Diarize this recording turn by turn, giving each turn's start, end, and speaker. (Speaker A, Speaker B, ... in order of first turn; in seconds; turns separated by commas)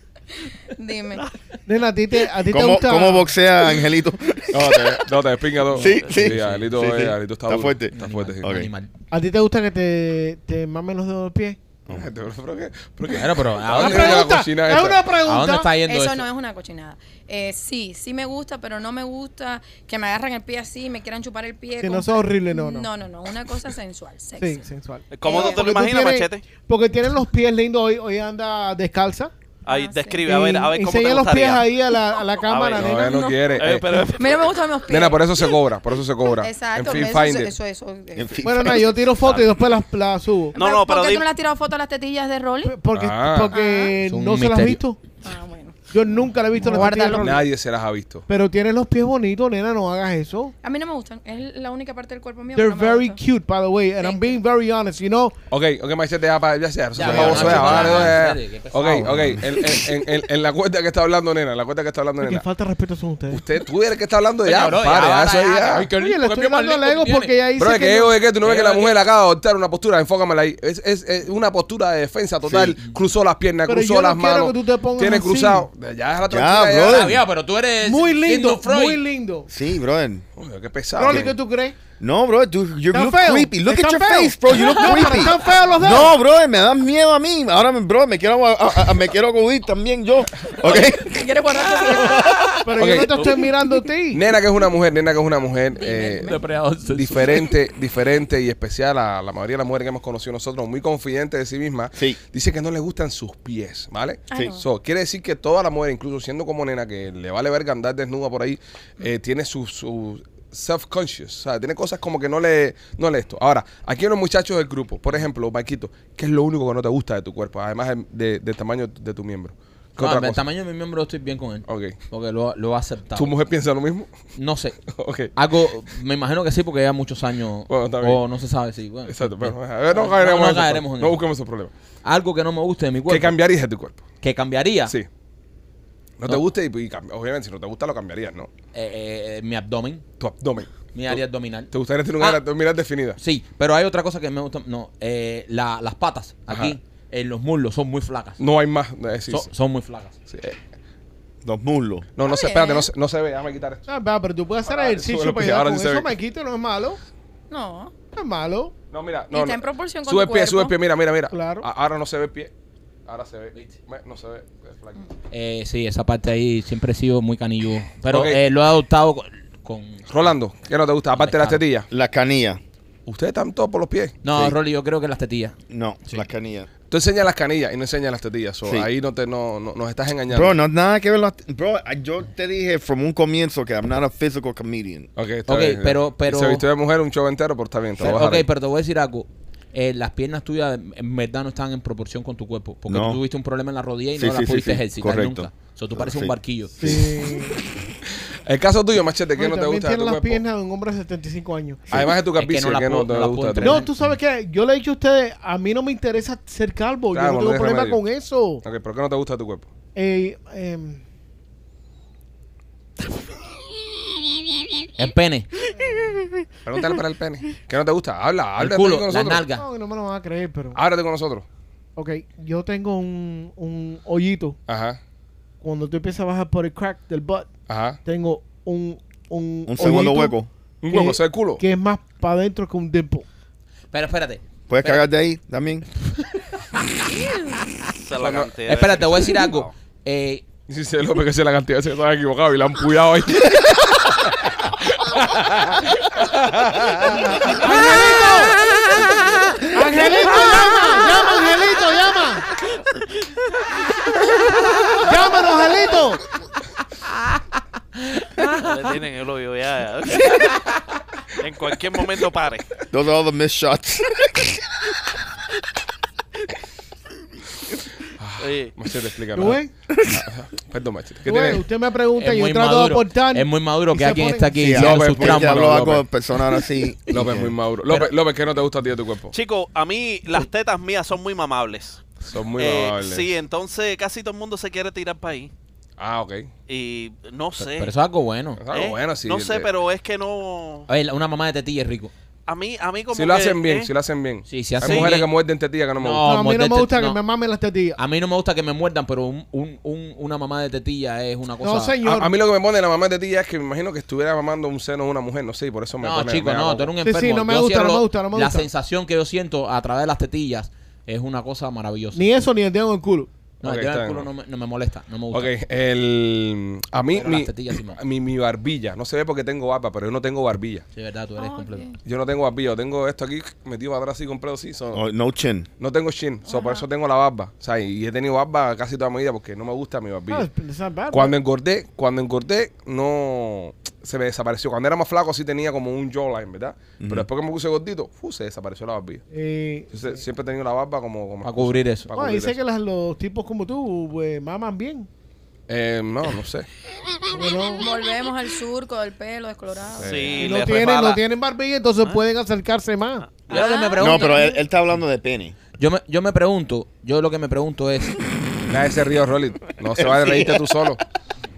Speaker A: 0.8-1.3, Speaker B: 1.6-3.3, Speaker C: 2.5-5.1, Speaker D: 4.5-8.5, Speaker C: 5.7-8.7, Speaker E: 5.8-6.7, Speaker E: 7.9-8.9, Speaker B: 9.1-11.6, Speaker D: 11.9-15.1, Speaker E: 13.1-14.3, Speaker B: 13.7-15.7, Speaker E: 15.2-16.2, Speaker A: 15.8-24.7, Speaker B: 21.8-22.9, Speaker B: 24.4-29.3, Speaker F: 25.1-26.4, Speaker A: 25.2-25.7, Speaker F: 29.6-31.7, Speaker A: 29.7-30.2, Speaker B: 30.3-33.2, Speaker F: 32.4-32.9, Speaker D: 32.8-34.0, Speaker A: 32.9-33.6, Speaker F: 33.5-34.6, Speaker A: 34.1-35.5, Speaker D: 34.9-37.5, Speaker A: 36.4-38.9, Speaker C: 38.1-39.0, Speaker B: 38.4-40.6, Speaker A: 40.5-42.8, Speaker F: 40.5-41.2, Speaker B: 42.6-45.0, Speaker D: 42.9-43.5, Speaker A: 43.5-44.0, Speaker E: 44.0-44.8, Speaker A: 45.2-45.8, Speaker B: 45.9-47.4, Speaker A: 46.6-47.5, Speaker D: 47.2-48.2, Speaker B: 48.3-50.5, Speaker A: 50.6-53.2, Speaker B: 52.5-55.4, Speaker A: 54.0-54.4, Speaker D: 55.5-62.5, Speaker E: 57.0-59.3, Speaker C: 57.0-58.1, Speaker C: 59.1-59.4, Speaker B: 62.2-63.5, Speaker D: 63.3-65.9, Speaker E: 64.4-67.3, Speaker B: 65.9-68.2, Speaker D: 67.6-77.2, Speaker E: 68.4-69.0, Speaker C: 72.4-72.8, Speaker B: 73.7-75.7, Speaker C: 76.3-77.2, Speaker E: 76.8-79.0, Speaker B: 77.8-79.5, Speaker C: 79.5-80.2, Speaker D: 80.4-81.4, Speaker B: 81.0-81.8, Speaker C: 81.1-81.3, Speaker C: 82.0-91.3, Speaker B: 82.9-86.2, Speaker A: 84.6-85.2, Speaker D: 90.5-90.8, Speaker A: 90.6-92.4, Speaker C: 91.9-92.6, Speaker B: 92.6-94.2, Speaker D: 92.8-93.4, Speaker D: 94.1-96.3, Speaker A: 95.8-96.4, Speaker E: 96.2-97.5, Speaker D: 96.8-120.4, Speaker A: 104.3-104.6, Speaker E: 120.0-123.3, Speaker D: 121.7-122.0, Speaker D: 123.1-124.1, Speaker E: 124.4-124.8, Speaker D: 124.9-125.3, Speaker E: 125.3-131.2, Speaker D: 127.7-128.2, Speaker D: 129.1-131.7, Speaker E: 132.0-133.4, Speaker D: 133.1-134.0, Speaker E: 134.2-134.9, Speaker D: 136.2-138.5, Speaker E: 138.7-140.0, Speaker D: 140.2-143.2, Speaker E: 140.9-142.4, Speaker E: 143.2-148.4, Speaker D: 146.5-146.8, Speaker D: 148.4-149.5, Speaker E: 149.3-150.1, Speaker D: 150.3-150.6, Speaker C: 151.4-152.1, Speaker D: 152.1-153.9, Speaker A: 152.2-152.9, Speaker B: 153.9-157.0, Speaker D: 154.6-156.1, Speaker A: 157.5-157.9, Speaker B: 158.1-158.7, Speaker D: 158.9-162.5, Speaker A: 159.3-160.8, Speaker B: 161.3-161.7, Speaker D: 163.1-165.0, Speaker E: 165.3-170.1, Speaker D: 168.1-168.4, Speaker D: 170.1-171.9, Speaker E: 171.1-171.6, Speaker C: 171.9-172.6, Speaker D: 173.1-174.1, Speaker E: 174.2-175.6, Speaker C: 174.3-174.6, Speaker C: 175.7-176.7, Speaker D: 176.9-180.6, Speaker C: 180.3-185.1, Speaker D: 185.2-188.5, Speaker E: 185.5-186.7, Speaker E: 188.0-196.9, Speaker C: 192.9-193.2, Speaker C: 194.2-197.2, Speaker B: 196.8-197.6, Speaker D: 198.1-200.4, Speaker B: 199.3-201.9, Speaker C: 201.9-202.1, Speaker D: 201.9-203.9, Speaker E: 202.3-203.9, Speaker B: 203.6-208.6, Speaker D: 207.1-208.0, Speaker D: 208.6-209.7, Speaker B: 209.9-211.0, Speaker E: 215.0-215.5, Speaker B: 215.8-216.5, Speaker D: 216.6-219.5, Speaker E: 218.6-219.6, Speaker B: 219.6-220.8, Speaker D: 220.8-221.5, Speaker B: 222.0-224.6, Speaker D: 224.7-225.0, Speaker B: 225.6-227.5, Speaker D: 227.7-228.0, Speaker B: 228.1-230.3, Speaker C: 229.7-230.5, Speaker D: 229.8-230.1, Speaker D: 230.8-231.6, Speaker B: 230.9-233.2, Speaker E: 233.9-235.1, Speaker C: 234.7-235.9, Speaker F: 237.9-239.7, Speaker D: 238.2-238.5, Speaker E: 238.7-240.4, Speaker D: 240.7-247.6, Speaker B: 247.5-248.6, Speaker B: 249.6-252.5, Speaker B: 255.0-256.2, Speaker E: 258.0-258.7, Speaker F: 258.5-260.6, Speaker F: 261.4-262.7, Speaker C: 262.9-264.9, Speaker D: 268.2-269.6, Speaker F: 268.4-268.8, Speaker B: 269.3-269.7, Speaker C: 269.9-270.2, Speaker D: 270.1-271.6, Speaker B: 271.2-274.7, Speaker E: 272.1-276.0, Speaker C: 274.6-277.6, Speaker D: 274.7-276.0, Speaker D: 277.1-279.3, Speaker E: 277.9-278.1, Speaker F: 279.3-285.5, Speaker D: 282.2-283.3, Speaker D: 286.0-286.5, Speaker F: 286.7-287.9, Speaker E: 287.6-288.6, Speaker D: 288.6-289.7, Speaker F: 288.7-290.9, Speaker E: 290.9-292.1, Speaker F: 292.5-293.9, Speaker D: 293.1-296.3, Speaker E: 294.5-295.3, Speaker F: 294.8-295.1, Speaker E: 296.0-297.2, Speaker B: 296.2-298.0, Speaker E: 297.9-302.0, Speaker B: 301.6-302.4, Speaker D: 302.0-306.9, Speaker E: 306.0-312.2, Speaker B: 307.0-308.7, Speaker B: 312.1-313.3, Speaker E: 313.6-315.5, Speaker D: 313.6-314.3, Speaker D: 315.3-320.9, Speaker E: 317.1-318.0, Speaker E: 320.9-321.9, Speaker A: 321.4-322.0, Speaker D: 322.0-325.0, Speaker C: 324.9-325.7, Speaker D: 325.8-330.5, Speaker A: 326.4-326.9, Speaker B: 330.3-331.4, Speaker D: 331.1-339.2, Speaker C: 337.0-337.3, Speaker B: 339.3-340.2, Speaker D: 339.9-342.6, Speaker E: 341.4-342.1, Speaker B: 342.1-345.1, Speaker D: 345.7-346.7, Speaker B: 347.3-347.9, Speaker A: 347.8-350.4, Speaker D: 350.0-350.7, Speaker F: 350.0-351.2, Speaker B: 350.4-353.3, Speaker F: 353.3-353.7, Speaker E: 353.5-354.5, Speaker A: 353.5-354.6, Speaker C: 354.0-355.6, Speaker E: 355.8-358.2, Speaker D: 358.7-361.0, Speaker C: 359.9-360.6